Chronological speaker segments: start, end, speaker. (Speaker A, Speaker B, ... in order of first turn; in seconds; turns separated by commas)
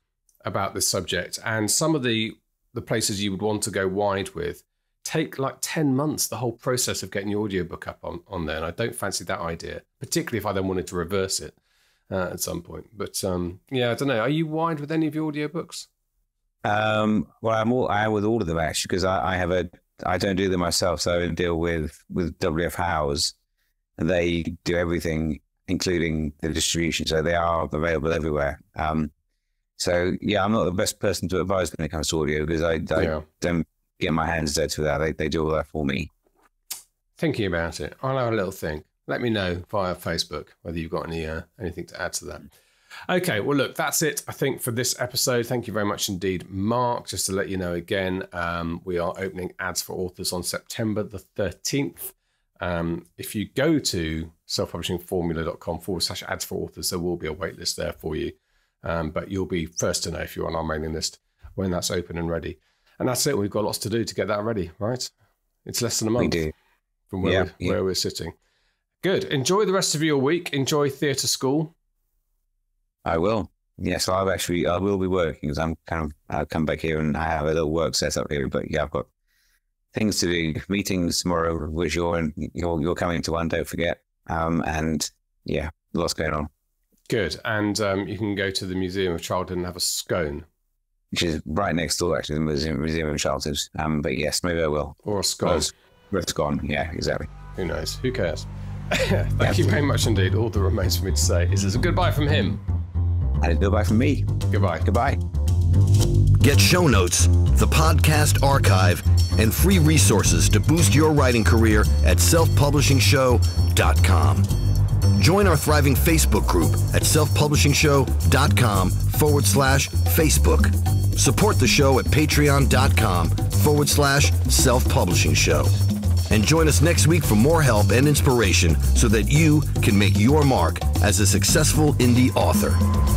Speaker A: 0.4-11.5, Speaker A: 12.1-15.9, Speaker B: 16.6-23.3, Speaker B: 24.0-29.1, Speaker B: 29.8-36.1, Speaker A: 33.0-33.2, Speaker A: 37.2-42.5, Speaker A: 43.1-65.1, Speaker A: 65.6-66.5, Speaker B: 66.2-66.5, Speaker A: 67.1-68.3, Speaker B: 67.2-67.8, Speaker A: 69.0-71.7, Speaker B: 73.0-79.1, Speaker B: 79.9-86.5, Speaker A: 87.1-90.4, Speaker B: 91.1-97.3, Speaker A: 95.0-95.7, Speaker A: 97.5-102.6, Speaker B: 99.4-99.7, Speaker B: 103.4-105.2, Speaker A: 104.5-104.8, Speaker C: 106.3-114.5, Speaker C: 115.1-125.8, Speaker C: 126.3-132.8